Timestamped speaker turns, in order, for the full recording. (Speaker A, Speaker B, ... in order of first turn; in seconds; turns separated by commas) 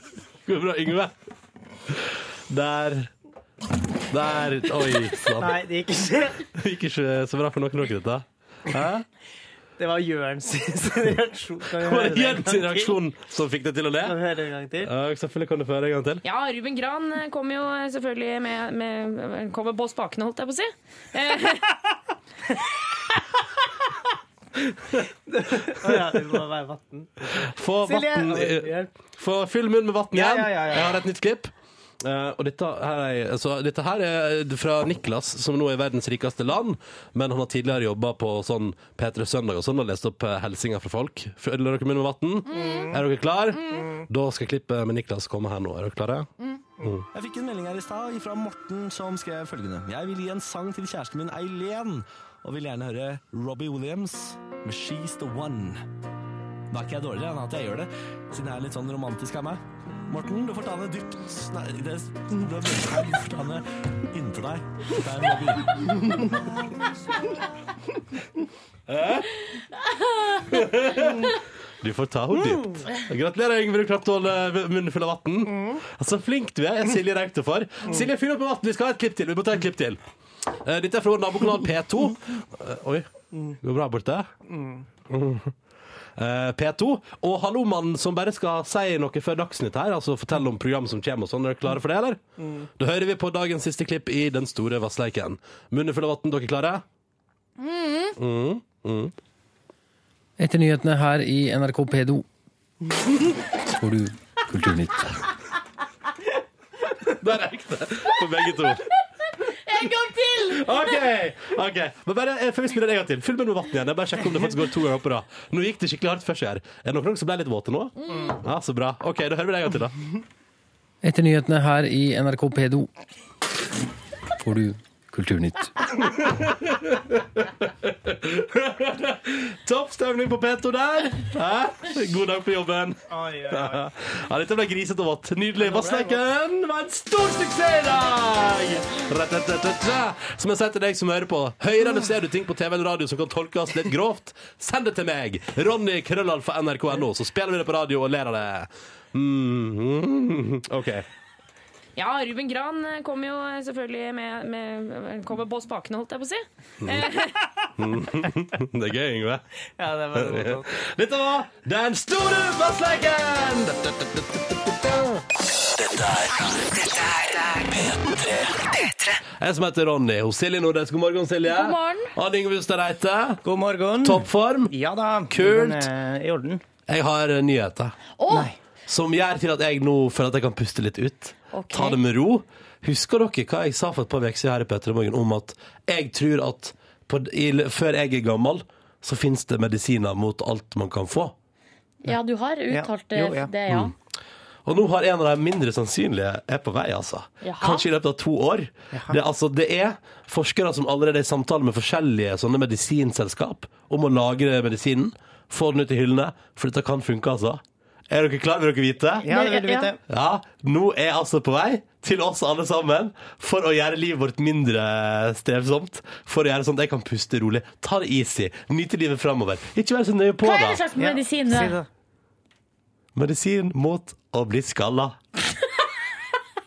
Speaker A: 0.5-1.1, Speaker A: 1.9-3.1, Speaker A: 4.1-5.6, Speaker B: 5.4-6.4, Speaker A: 6.5-9.1, Speaker B: 9.8-12.9, Speaker A: 11.8-14.2, Speaker B: 14.0-14.9, Speaker A: 14.8-16.2, Speaker C: 16.2-21.8, Speaker B: 25.3-28.9, Speaker A: 27.4-46.3, Speaker B: 30.1-31.0, Speaker B: 42.5-43.0, Speaker D: 47.1-55.8, Speaker D: 56.7-66.2, Speaker A: 68.9-69.3, Speaker A: 70.5-80.0, Speaker A: 80.5-84.3, Speaker B: 84.5-84.8, Speaker A: 85.1-85.5, Speaker A: 86.2-92.2, Speaker A: 92.8-96.8, Speaker A: 98.2-99.1, Speaker E: 100.4-102.2, Speaker E: 103.8-105.1, Speaker A: 107.1-108.8, Speaker F: 109.7-110.6, Speaker A: 110.5-120.0, Speaker E: 121.0-122.9, Speaker E: 124.4-125.9, Speaker A: 126.0-151.1, Speaker B: 133.1-133.8, Speaker B: 135.6-136.2, Speaker C: 152.0-157.5, Speaker A: 157.8-159.4, Speaker B: 159.8-160.8, Speaker A: 160.1-165.2, Speaker A: 165.8-166.2, Speaker G: 166.6-167.9, Speaker G: 168.6-169.2, Speaker A: 169.4-173.4, Speaker F: 171.5-172.1, Speaker B: 173.4-176.6, Speaker A: 174.0-174.7, Speaker A: 175.3-175.9, Speaker A: 176.9-178.0, Speaker F: 178.2-178.5, Speaker B: 178.3-178.6, Speaker A: 178.9-191.3, Speaker F: 181.5-182.0, Speaker F: 192.0-193.9, Speaker B: 192.7-193.5, Speaker A: 194.7-209.3, Speaker F: 197.4-197.9, Speaker B: 198.9-199.2, Speaker B: 209.2-210.0, Speaker F: 209.3-209.9, Speaker A: 210.1-220.8, Speaker F: 220.4-221.8, Speaker B: 221.0-221.9, Speaker A: 223.2-225.2